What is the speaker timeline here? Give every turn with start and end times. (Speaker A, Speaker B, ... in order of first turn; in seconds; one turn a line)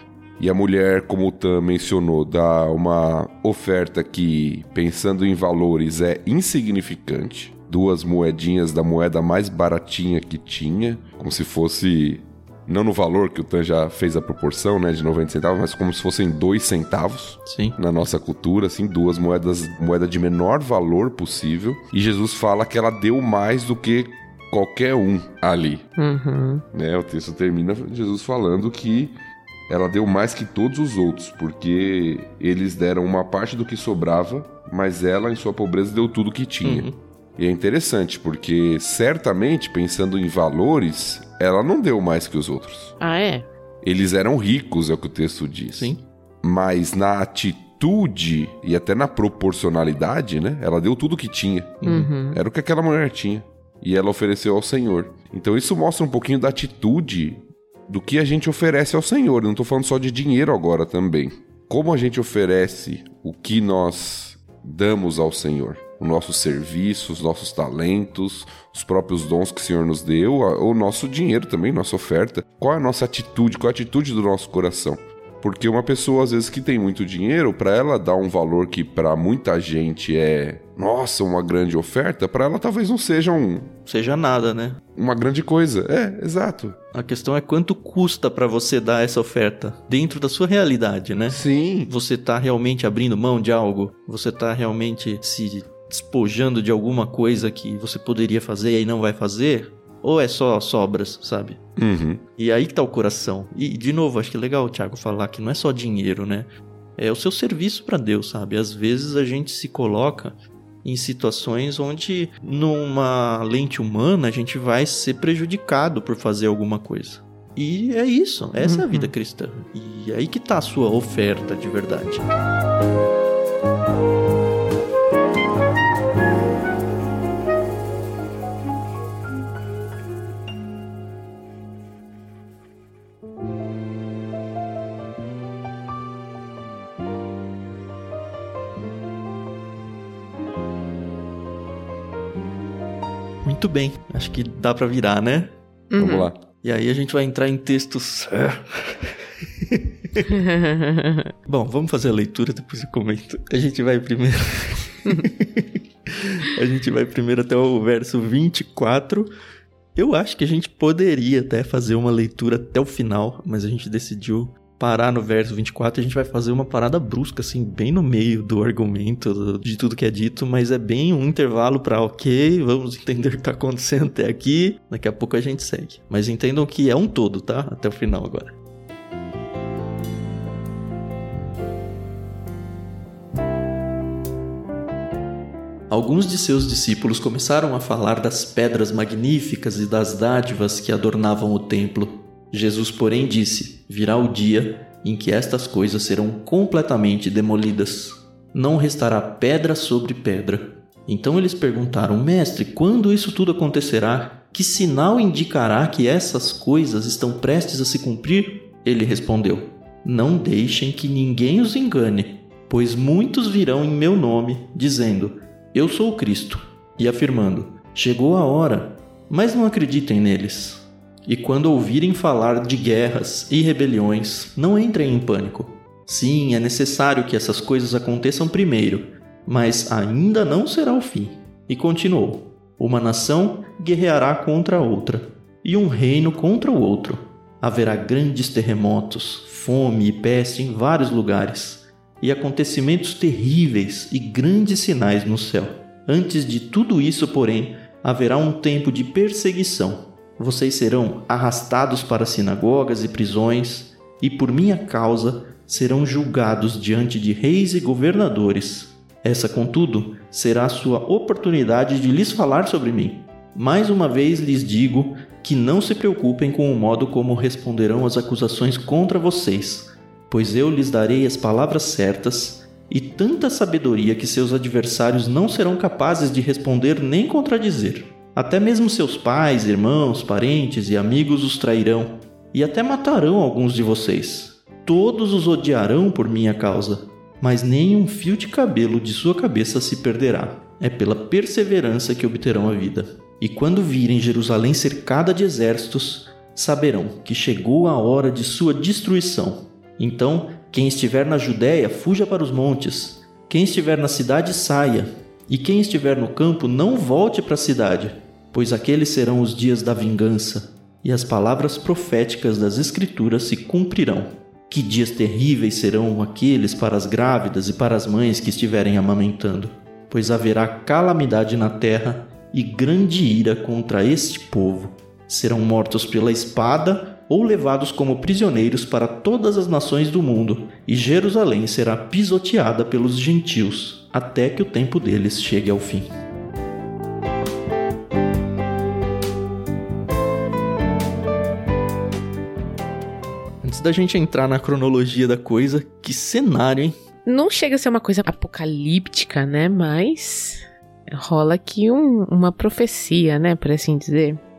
Speaker A: 0.4-25.9
Speaker B: 17.4-17.8
Speaker C: 26.0-26.6
Speaker A: 26.7-29.1
Speaker A: 29.7-43.0
Speaker B: 36.6-36.9
Speaker C: 43.0-43.5
Speaker A: 43.8-83.7
Speaker B: 45.7-46.0
Speaker B: 51.8-52.1
Speaker C: 51.8-52.4
Speaker B: 83.8-84.8
Speaker A: 85.0-86.8
Speaker B: 86.9-101.6
Speaker A: 91.3-91.9
Speaker A: 101.8-102.2
Speaker B: 102.3-122.3
Speaker C: 118.6-119.1
Speaker B: 143.4-145.5
Speaker C: 145.9-146.3
Speaker A: 146.0-146.4
Speaker B: 146.6-150.3
Speaker C: 150.4-151.2
Speaker B: 151.4-159.3
Speaker B: 159.9-178.5
Speaker B: 185.9-336.1
Speaker B: 343.6-346.9
Speaker C: 347.2-354.4